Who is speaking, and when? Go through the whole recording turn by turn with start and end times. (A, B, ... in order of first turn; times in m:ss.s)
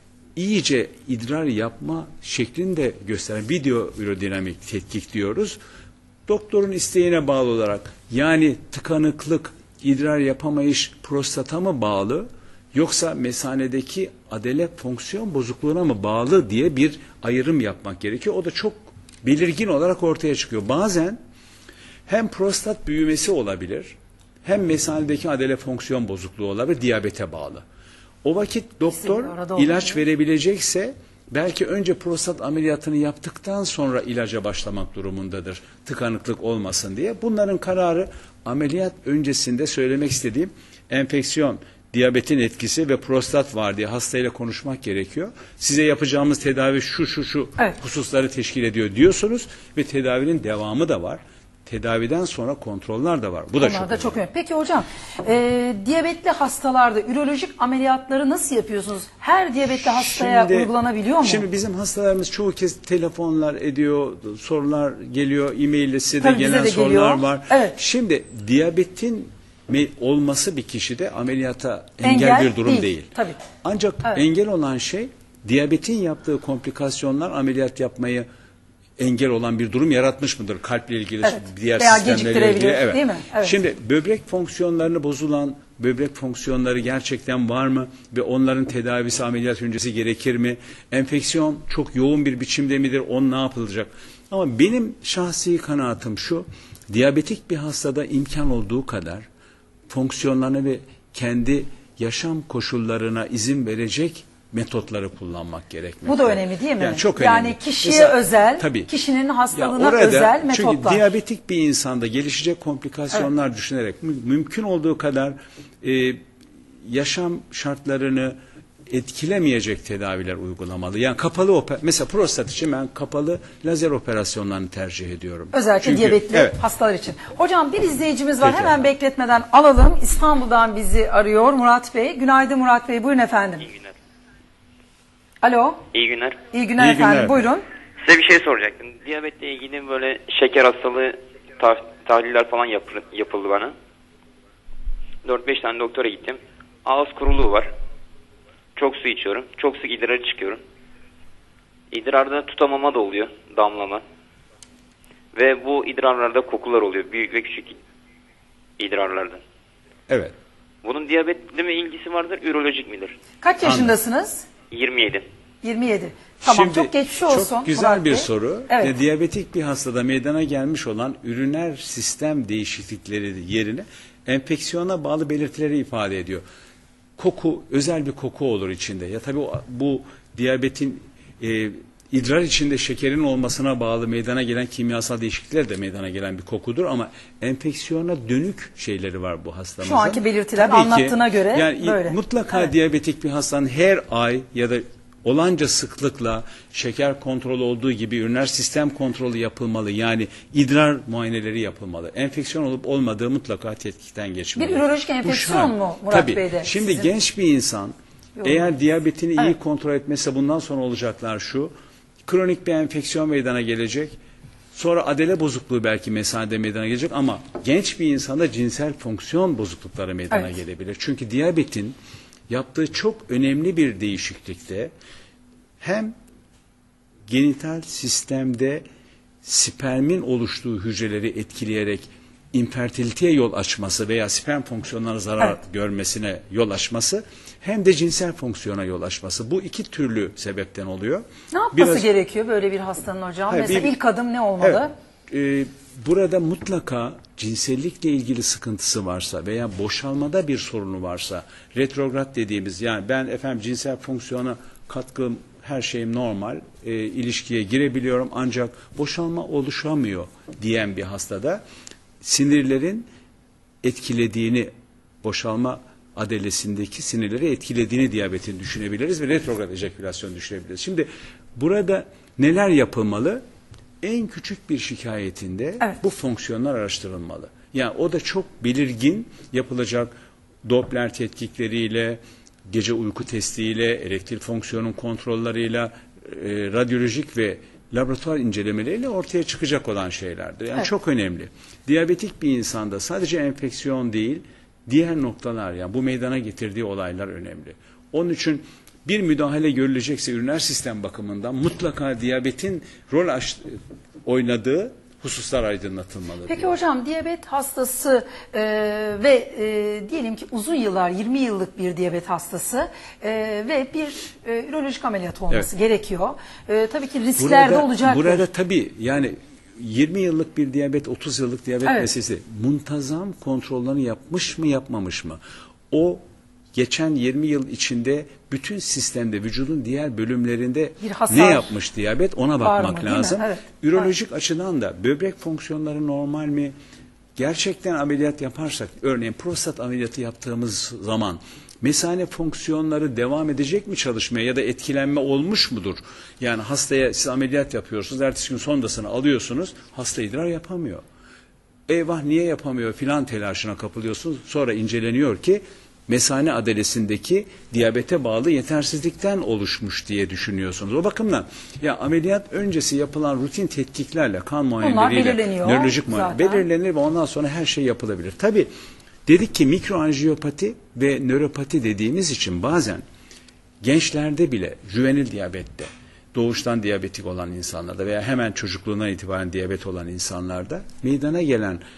0:00.4-0:05.6 A
0:06.3-0:21.2 A
0:22.1-0:27.6 A
0:28.2-0:54.2 A
0:28.9-0:30.0 B
0:53.6-1:01.4 B
0:59.7-1:00.7 A
1:01.2-1:13.1 A
1:06.2-1:07.7 B
1:12.0-1:13.4 B
1:13.6-1:18.2 A
1:19.0-1:39.3 A
1:21.2-1:23.6 B
1:39.9-1:48.9 A
1:46.0-1:51.1 B
1:49.5-1:56.2 A
1:56.8-1:58.4 A
1:58.9-2:06.6 A
2:05.5-2:13.7 B
2:08.4-2:08.8 A
2:15.4-2:15.8 B
2:15.9-2:16.4 C
2:16.5-2:17.6 B
2:16.8-2:17.4 A
2:18.0-2:23.7 C
2:25.2-2:27.7 C
2:28.8-2:30.6 C
2:31.9-2:34.0 C
2:35.3-2:37.8 C
2:38.8-2:39.4 C
2:40.1-2:40.3 A
2:40.8-2:43.2 C
2:43.4-2:44.5 B
2:43.6-2:43.9 A
2:44.7-2:45.2 C
2:45.6-2:48.9 B
2:46.4-2:56.4 A
2:57.2-3:31.7 A
3:09.8-3:12.7 B
3:24.6-3:27.1 B
3:28.4-3:28.7 B
3:32.2-3:34.2 A
3:34.7-3:42.0 A
3:40.3-3:40.6 B
3:42.5-3:44.9 A
3:45.8-3:46.1 A
3:47.3-3:48.8 A
3:49.4-4:02.0 A
4:01.5-4:04.9 B
4:03.5-4:03.9 A
4:04.6-4:21.6 A
4:22.2-4:23.1 A
4:23.8-4:24.7 A
4:25.2-4:33.4 A
4:34.0-4:40.1 A
4:40.6-5:06.8 A
5:06.5-5:18.4 B
5:17.4-5:25.4 A
5:21.8-5:22.1 B
5:25.9-5:26.2 A
5:26.7-5:36.7 A
5:31.0-5:31.7 B
5:32.6-5:33.6 B
5:37.4-5:51.0 A
5:51.9-6:08.7 A
6:04.8-6:06.6 B
6:09.2-6:13.0 A
6:13.8-6:21.8 A